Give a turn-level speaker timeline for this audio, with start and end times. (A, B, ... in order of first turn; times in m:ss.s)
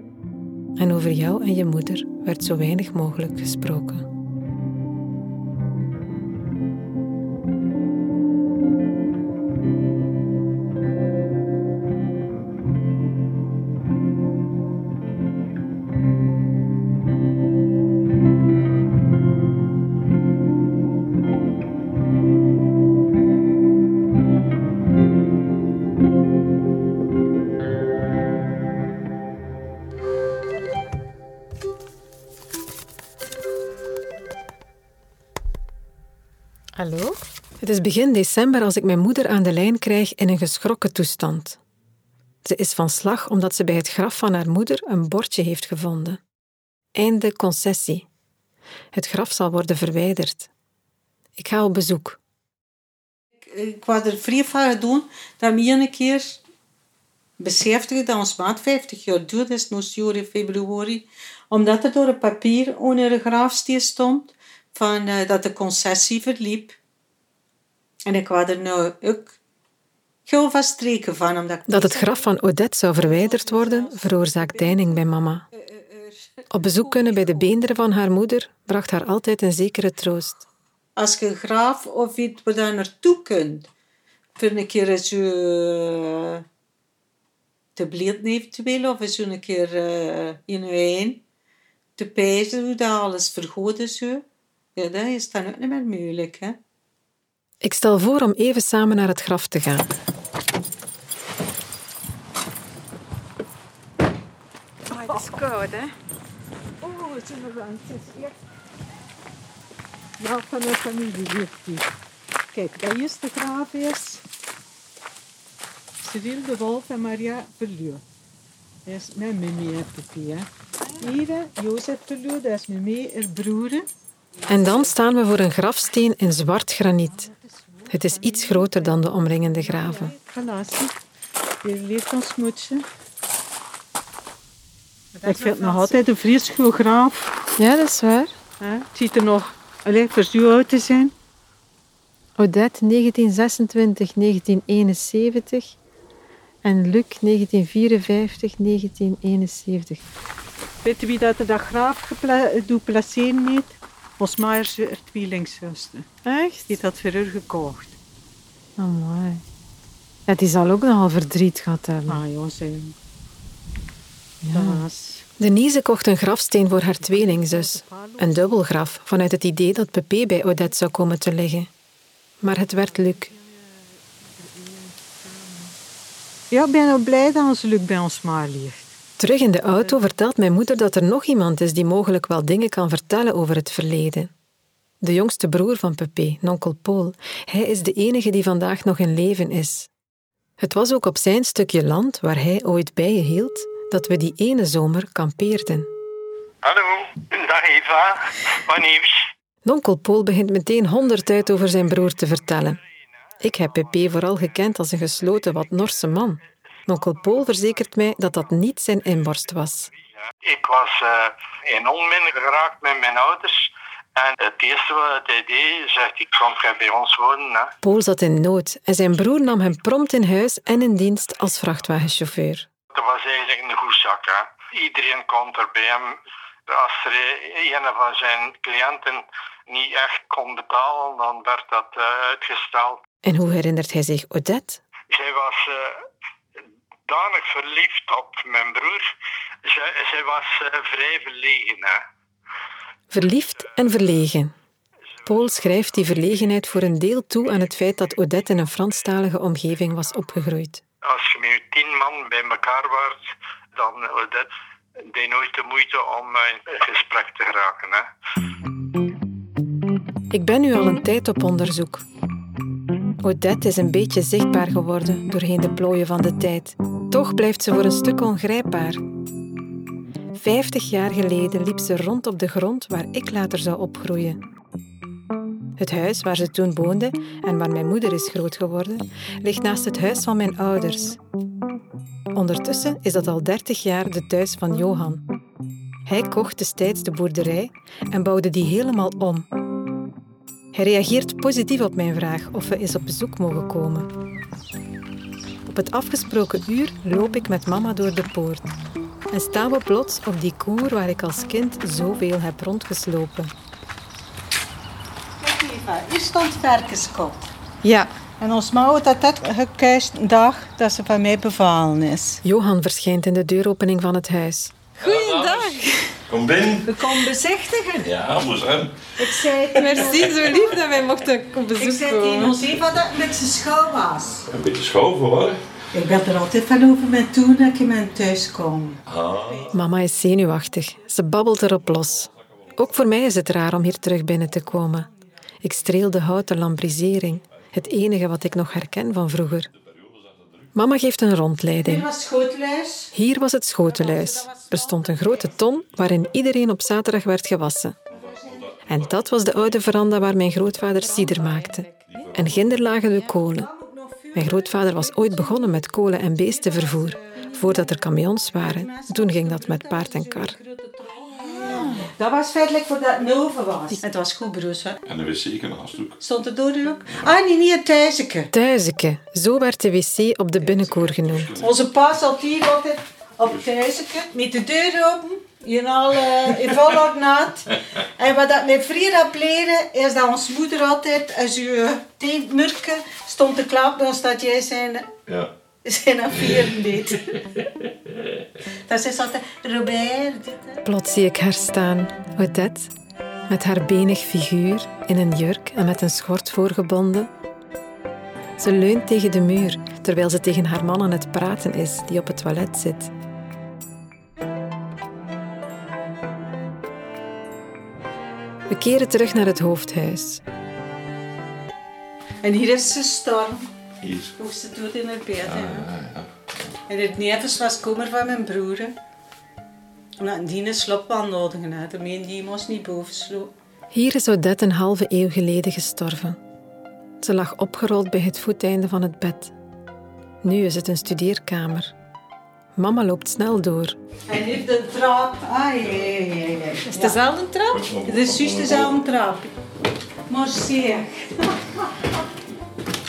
0:00.8-0:04.0 A
0:36.8-0:37.2 B
0:37.6-0:41.6 A
0:42.4-0:46.2 A
0:47.0-0:48.0 A
0:48.9-0:50.5 A
0:51.4-0:52.2 A
0:53.4-0:56.4 C
0:57.4-1:06.8 C
1:08.0-1:09.4 C
1:10.2-1:12.3 C
1:11.7-1:15.4 A
1:13.0-1:17.5 C
1:16.5-1:20.4 A
1:21.0-1:23.7 C
1:24.4-1:26.4 C
1:27.8-1:31.2 C
1:32.0-1:34.2 C
1:34.8-1:36.6 C
1:37.6-1:39.9 A
1:44.9-1:45.9 B
1:46.8-1:48.3 C
1:50.2-1:51.9 C
1:52.5-1:54.2 C
1:56.0-1:58.0 C
1:58.8-2:00.5 C
2:01.0-2:03.9 C
2:04.4-2:04.8 C
2:04.5-2:07.3 A
2:07.8-2:10.9 C
2:07.9-2:10.1 A
2:11.6-2:12.8 C
2:15.2-2:16.0 B
2:15.2-2:17.3 C
2:17.6-2:18.3 A
2:18.6-2:21.1 C
2:22.4-2:25.8 A
2:26.6-2:30.0 A
2:30.8-2:36.1 C
2:36.2-2:36.6 A
2:36.7-2:38.0 C
2:38.8-2:39.4 A
2:40.3-2:42.2 A
2:42.1-2:43.0 C
2:44.4-2:44.8 A
2:44.5-2:45.2 C
2:45.4-2:51.7 A
2:47.0-2:48.6 C
2:52.4-2:53.3 A
2:54.5-2:54.9 C
2:56.5-2:58.9 C
2:59.2-3:04.3 A
3:05.0-3:09.9 A
3:10.6-3:15.9 A
3:16.6-3:19.3 D
3:19.6-3:22.8 A
3:23.4-3:29.9 A
3:30.4-3:37.7 D
3:37.8-3:42.7 A
3:42.9-3:46.2 D
3:46.7-3:53.0 D
3:53.2-3:54.8 A
3:55.1-3:56.0 D
3:57.1-3:59.1 D
3:59.6-4:02.0 D
4:03.1-4:04.5 A
4:05.2-4:10.8 A
4:11.0-4:14.5 D
4:15.1-4:18.1 D
4:20.3-4:22.0 A
4:23.2-4:29.0 A
4:30.4-4:34.4 A
4:35.8-4:41.2 A
4:42.3-4:45.2 A
4:46.0-4:49.5 A
4:50.7-4:54.1 A
4:55.7-4:58.7 A
4:59.3-5:03.5 A
5:05.4-5:07.5 C
5:08.4-5:12.4 C
5:12.4-5:14.7 A
5:15.0-5:16.2 B
5:15.0-5:17.0 E
5:16.9-5:18.1 B
5:17.0-5:17.3 C
5:18.0-5:18.9 E
5:19.2-5:20.5 C
5:19.8-5:22.5 B
5:19.8-5:22.6 A
5:21.8-5:24.5 C
5:24.5-5:25.6 E
5:25.9-5:29.7 C
5:29.0-5:29.7 E
5:29.7-5:35.1 A
5:31.7-5:33.2 E
5:35.6-5:39.7 A
5:39.7-5:40.8 E
5:40.7-5:42.0 A
5:41.8-5:43.1 C
5:43.1-5:48.0 A
5:43.8-5:45.8 C
5:48.1-5:49.4 E
5:48.1-5:48.8 C
5:48.8-5:53.7 A
5:51.3-5:52.4 C
5:52.1-5:53.0 E
5:53.2-6:05.0 C
5:54.3-6:00.6 A
6:05.0-6:06.2 E
6:06.2-6:08.5 C
6:08.5-6:11.6 A
6:10.6-6:11.8 E
6:11.6-6:25.1 C
6:25.3-6:25.5 E
6:25.8-6:27.2 C
6:28.8-6:30.8 C
6:30.8-6:32.9 A
6:33.5-6:37.3 A
6:38.6-6:43.1 A
6:48.7-6:50.4 A
6:52.4-6:53.7 C
6:54.0-6:54.3 E
6:54.4-6:55.9 C
6:55.4-6:56.3 E
6:56.9-6:58.9 C
7:00.2-7:03.5 C
7:03.9-7:06.4 A
7:07.2-7:09.5 A
7:10.4-7:11.9 A
7:12.8-7:14.0 A
7:14.3-7:17.2 C
7:16.9-7:17.7 A
7:17.0-7:17.7 B
7:17.7-7:19.0 E
7:18.0-7:19.5 C
7:20.3-7:21.9 C